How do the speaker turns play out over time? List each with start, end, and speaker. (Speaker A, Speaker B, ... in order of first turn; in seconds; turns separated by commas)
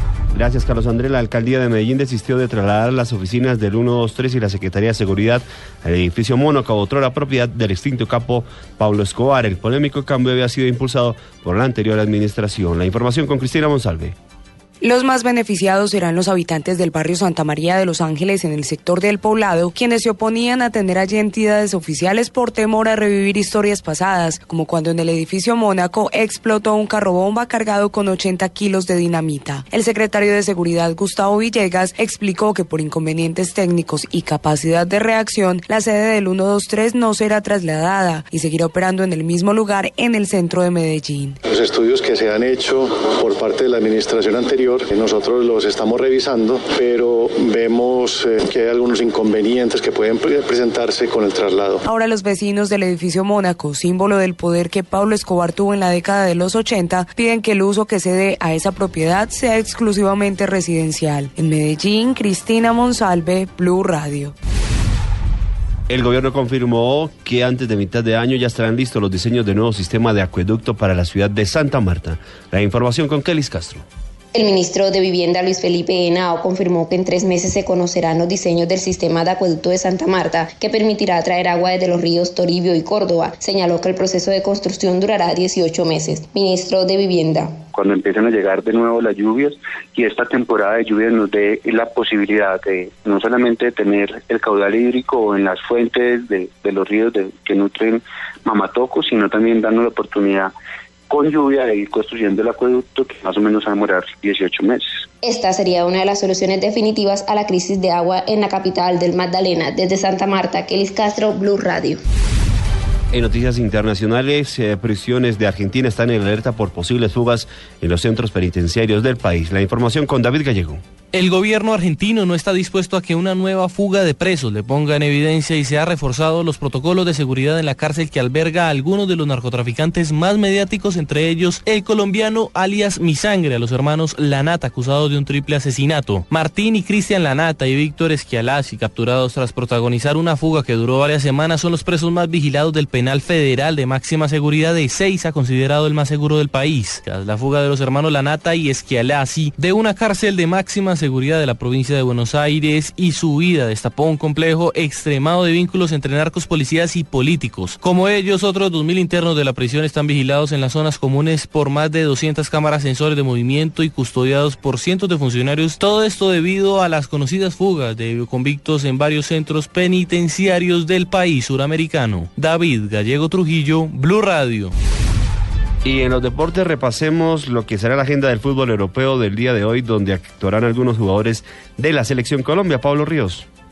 Speaker A: 0.3-14.2, Speaker B: 14.8-41.4, Speaker C: 41.5-51.8, Speaker B: 51.8-64.3, Speaker A: 65.9-73.8, Speaker D: 74.3-87.5, Speaker E: 87.7-100.5, Speaker E: 101.1-104.9, Speaker D: 105.2-112.0, Speaker A: 113.1-120.8, Speaker F: 121.1-174.7, Speaker A: 175.8-183.4